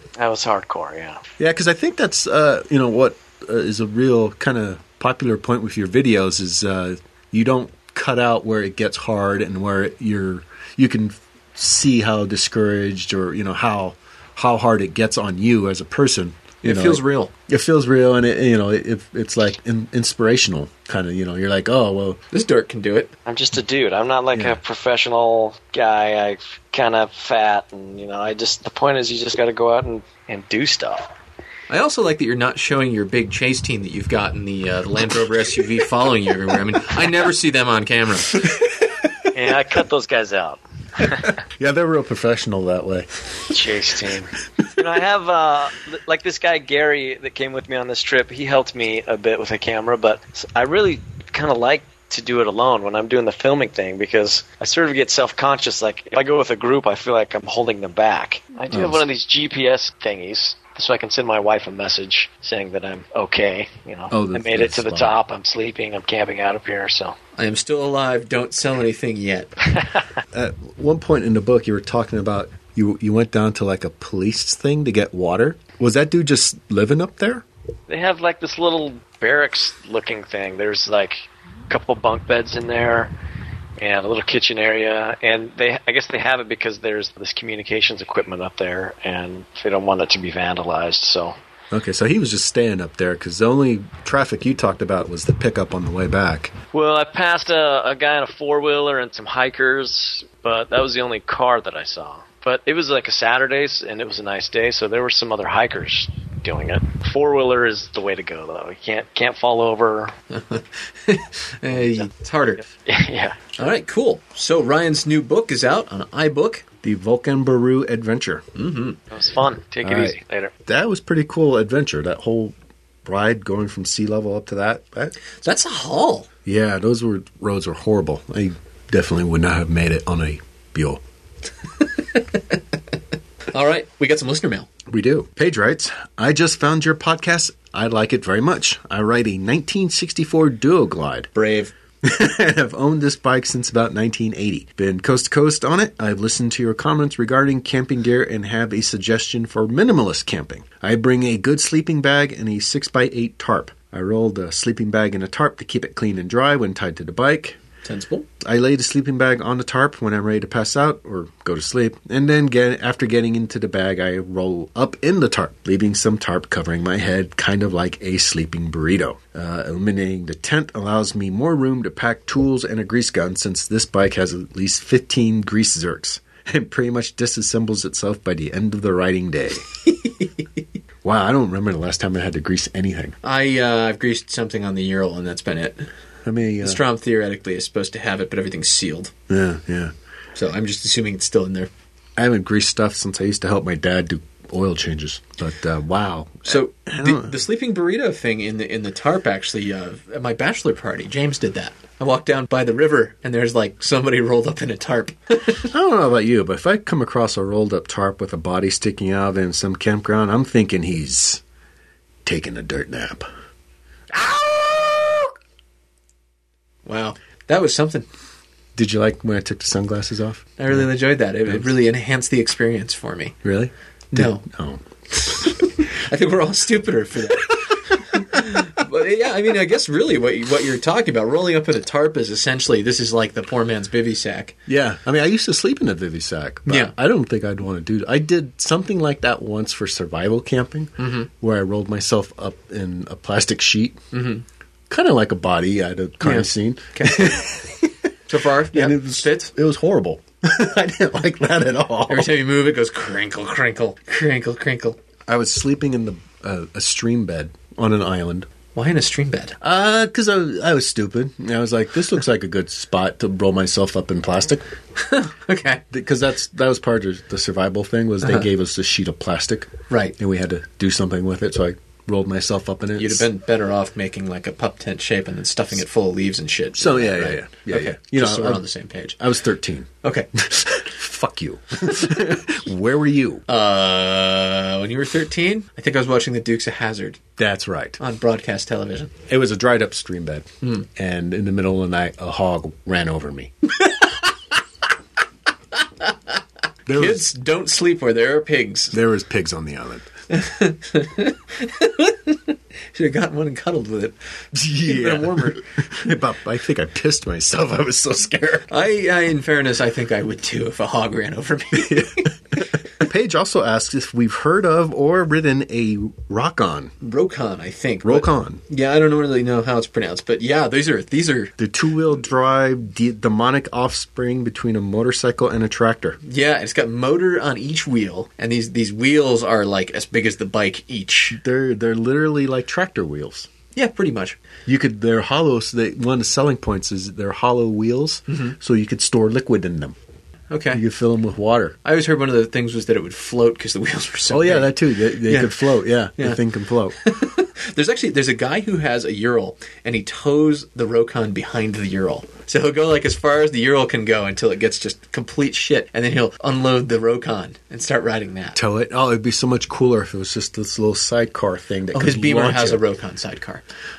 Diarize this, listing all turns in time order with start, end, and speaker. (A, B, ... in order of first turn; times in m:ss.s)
0:00.2-0:01.2 A
0:01.4-0:22.2 B
0:16.6-0:17.3 C
0:22.3-0:23.1 C
0:23.3-0:31.1 A
0:31.7-0:38.4 C
0:38.4-0:39.3 B
0:39.3-0:41.4 A
0:41.3-0:43.1 B
0:43.5-1:07.2 A
0:58.7-0:59.0 B
1:04.1-1:05.2 B
1:07.4-1:09.5 C
1:10.3-1:17.4 B
1:17.9-1:23.1 A
1:23.8-1:31.4 A
1:31.7-1:36.5 B
1:36.7-1:50.1 A
1:50.3-1:52.6 C
1:52.8-1:53.4 A
1:53.6-1:56.6 C
1:56.8-1:58.4 B
1:58.6-1:59.0 C
1:59.1-2:00.5 A
1:59.8-2:05.2 B
2:05.4-2:06.3 C
2:06.4-2:11.0 B
2:11.8-2:12.6 C
2:13.5-2:14.7 C
2:14.9-2:21.3 B
2:21.4-2:21.7 C
2:22.0-2:37.6 B
2:37.8-2:38.3 C
2:38.4-2:59.7 B
2:59.9-3:00.3 C
3:01.0-3:03.2 B
3:03.2-3:05.9 C
3:06.2-3:06.8 B
3:06.6-3:09.1 C
3:09.3-3:09.9 B
3:10.4-3:11.7 C
3:12.2-3:17.4 B
3:16.5-3:25.7 C
3:25.7-3:31.4 B
3:32.2-3:33.2 B
3:34.2-3:35.2 C
3:36.9-3:38.1 C
3:38.8-3:40.9 B
3:40.6-3:43.4 C
3:43.4-3:44.8 B
3:44.1-3:44.4 C
3:45.2-3:54.6 C
3:48.2-3:48.6 B
3:54.7-4:04.0 B
3:56.7-3:56.9 C
4:01.0-4:01.3 C
4:04.1-4:04.4 C
4:04.9-4:08.0 B
4:06.2-4:07.4 C
4:08.3-4:09.5 C
4:08.7-4:12.3 B
4:12.1-4:15.0 C
4:15.3-4:18.5 B
4:18.8-4:19.6 C
4:19.6-4:24.6 B
4:25.0-4:25.8 C
4:25.9-4:33.3 B
4:33.0-4:39.2 C
4:36.8-4:38.6 B
4:39.2-4:43.4 B
4:40.0-4:40.3 C
4:43.5-4:47.2 C
4:47.4-4:48.0 B
4:48.0-4:49.1 C
4:49.3-4:53.5 B
4:56.9-4:57.2 B
4:56.9-4:59.0 C
4:58.9-5:00.1 B
5:00.3-5:04.2 C
5:04.5-5:08.7 B
5:04.8-5:05.6 C
5:08.7-5:12.3 C
5:11.8-5:12.3 B
5:13.0-5:16.9 B
5:17.0-5:21.5 C
5:18.0-5:18.6 B
5:21.6-5:26.2 B
5:26.2-5:31.4 C
5:31.3-5:33.5 B
5:33.8-5:34.4 C
5:34.7-5:40.0 B
5:38.3-5:38.6 C
5:40.5-5:40.8 C
5:40.7-5:41.8 B
5:41.8-5:46.4 C
5:44.3-5:47.0 B
5:47.0-5:58.6 C
5:58.6-6:02.8 B
6:01.9-6:03.6 C